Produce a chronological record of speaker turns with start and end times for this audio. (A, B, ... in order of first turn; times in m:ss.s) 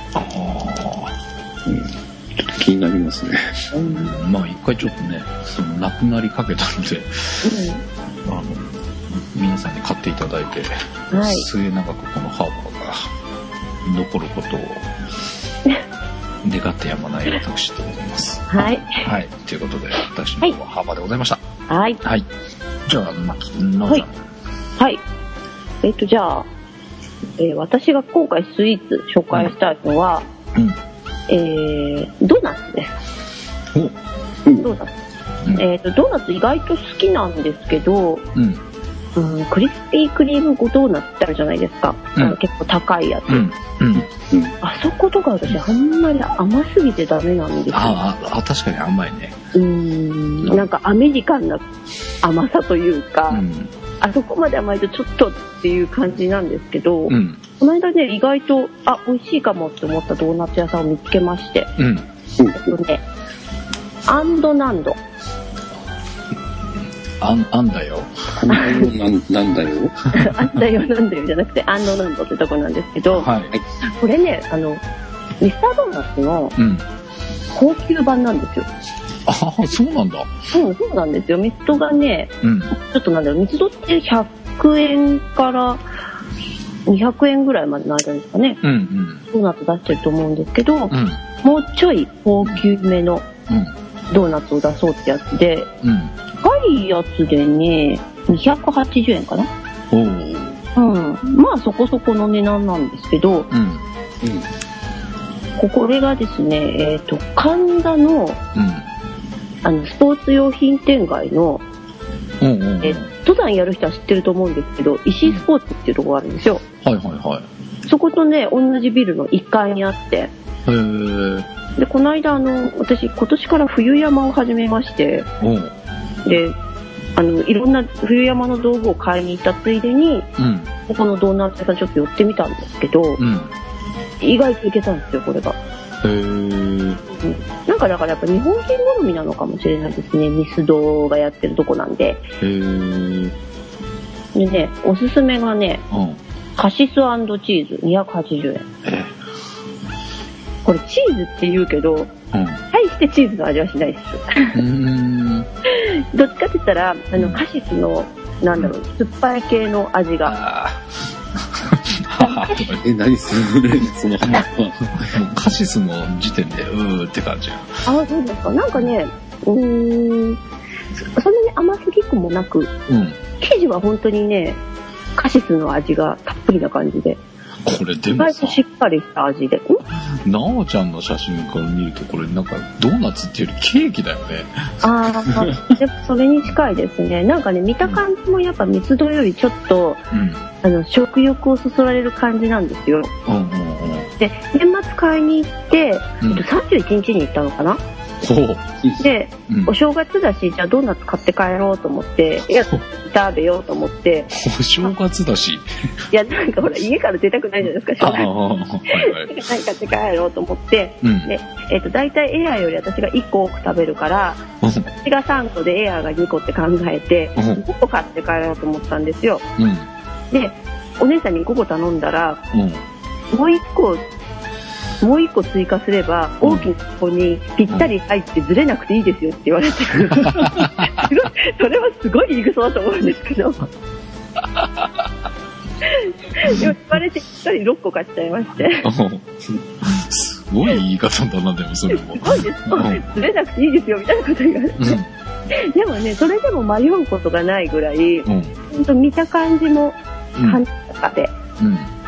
0:00.1-0:01.2 A
0:01.7-0:03.6 B
0:03.7-0:04.2 C
0:03.9-0:07.5 A
0:07.4-0:07.8 C
0:08.2-0:13.1 A
0:11.1-0:11.5 C
0:13.8-0:14.9 A
0:16.4-0:21.4 A
0:18.5-0:19.0 C
0:21.7-0:22.0 C
0:22.9-0:24.2 A
0:25.8-0:26.5 C
0:27.4-0:30.3 C
0:30.5-0:30.8 A
0:31.3-0:33.0 C
0:34.6-0:34.9 C
0:35.5-0:38.3 C
0:38.4-0:38.6 A
0:39.2-0:43.5 C
0:43.3-0:44.1 A
0:44.0-0:44.5 B
0:44.6-0:48.0 C
0:47.7-0:49.4 A
0:49.6-0:51.6 C
0:50.4-0:50.7 A
0:52.2-0:53.4 C
0:53.3-0:53.7 A
0:54.0-1:01.7 C
0:57.1-0:57.4 A
1:01.8-1:02.1 A
1:02.4-1:02.8 B
1:02.6-1:03.0 C
1:04.1-1:05.0 C
1:07.2-1:08.1 A
1:08.4-1:10.0 B
1:10.1-1:13.3 C
1:13.1-1:13.5 A
1:13.9-1:14.8 C
1:15.4-1:16.6 C
1:16.6-1:16.8 A
1:17.5-1:18.7 C
1:19.3-1:20.3 A
1:20.5-1:25.8 C
1:22.4-1:22.7 A
1:26.9-1:28.6 C
1:28.6-1:29.2 A
1:29.3-1:33.2 C
1:30.9-1:31.2 A
1:33.5-1:33.7 A
1:34.1-1:35.7 C
1:35.8-1:36.2 A
1:36.4-1:39.5 C
1:39.9-1:40.6 A
1:40.8-1:43.5 C
1:43.5-1:43.9 A
1:45.6-1:48.4 C
1:48.5-1:48.9 A
1:49.6-1:51.6 C
1:52.4-1:53.1 A
1:52.8-1:56.6 C
1:56.8-1:57.5 A
1:57.9-2:00.3 C
2:00.7-2:01.5 A
2:01.8-2:05.3 C
2:05.4-2:05.7 A
2:06.2-2:06.6 C
2:07.2-2:10.3 C
2:10.4-2:10.7 A
2:10.9-2:13.2 C
2:13.2-2:13.5 A
2:14.2-2:15.6 C
2:16.0-2:17.0 A
2:17.1-2:22.2 C
2:22.4-2:23.3 A
2:24.3-2:25.8 C
2:25.9-2:26.2 A
2:26.6-2:28.6 C
2:28.8-2:29.2 A
2:30.6-2:32.1 C
2:32.3-2:32.6 A
2:32.7-2:34.6 C
2:34.5-2:35.5 A
2:35.7-2:40.4 C
2:40.2-2:42.8 A
2:42.2-2:42.6 C
2:42.8-2:45.2 B
2:45.0-2:47.8 A
2:47.9-2:50.4 C
2:51.0-2:52.7 C
2:52.9-2:53.2 A
2:53.4-2:54.6 C
2:55.2-2:57.2 C
2:57.6-2:58.6 A
2:58.2-2:59.8 C
2:59.9-3:04.8 A
3:04.8-3:10.1 C
3:10.1-3:10.4 A
3:10.6-3:13.1 C
3:13.3-3:14.1 A
3:14.2-3:17.8 C
3:18.2-3:18.6 A
3:19.0-3:24.3 C
3:24.3-3:25.7 A
3:26.1-3:28.3 C
3:28.0-3:29.4 A
3:28.9-3:39.4 C
3:31.0-3:31.3 A
3:34.6-3:34.9 A
3:37.4-3:37.6 A
3:39.6-3:39.9 A
3:40.3-3:42.4 C
3:42.5-3:42.8 A
3:43.3-3:44.0 C
3:45.0-3:53.6 C
3:46.4-3:46.7 A
3:50.2-3:51.1 A
3:54.4-3:55.1 A
3:55.8-3:58.9 C
3:56.5-3:56.7 A
3:58.8-3:59.3 A
3:59.8-4:03.2 A
4:01.9-4:05.0 C
4:04.8-4:05.1 A
4:05.5-4:11.3 C
4:08.3-4:08.6 A
4:10.4-4:10.6 A
4:11.6-4:11.9 A